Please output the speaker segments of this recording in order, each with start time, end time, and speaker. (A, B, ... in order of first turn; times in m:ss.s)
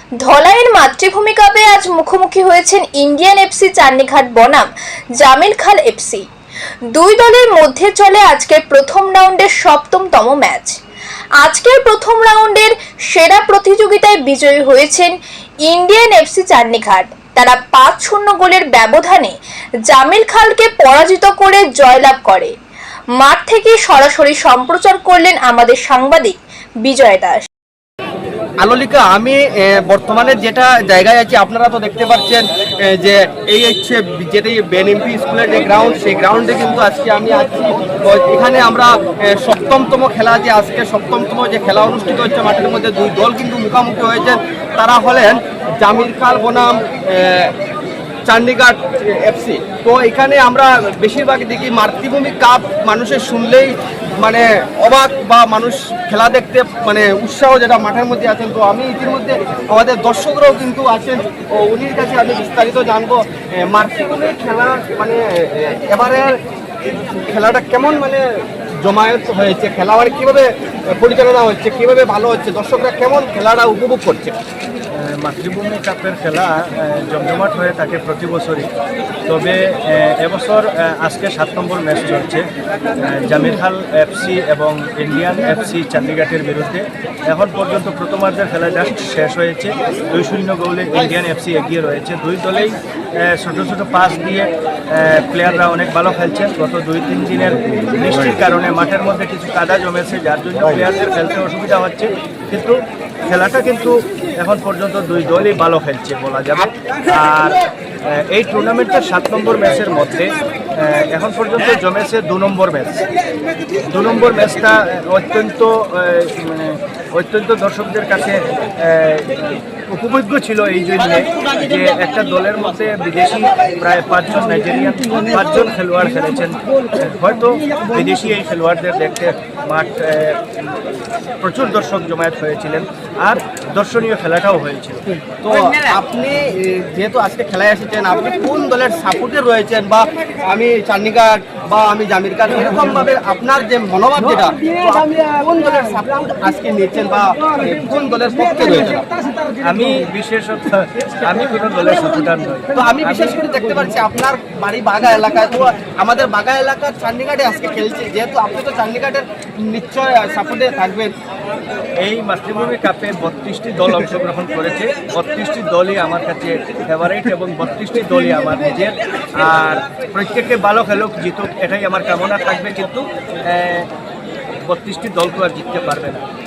0:00.2-0:04.7 A
0:05.2-0:06.2 A
0:06.9-0:10.8 A
0:11.4-0:15.1 A
0:15.7-0:19.3 A
0:19.9-0:22.5 A
0:23.2-0:27.4 A
0:28.6-0:47.5 B
0:48.3-1:06.3 B
1:07.3-1:08.2 B
1:08.8-1:14.4 B
1:14.9-1:18.7 C
1:19.3-1:22.4 C
1:23.0-1:53.0 C
1:53.8-2:10.4 C
2:11.4-2:15.0 C
2:15.4-2:29.1 B
2:29.6-2:33.4 C
2:32.7-2:41.1 B
2:42.0-2:53.9 C
2:54.6-2:56.2 C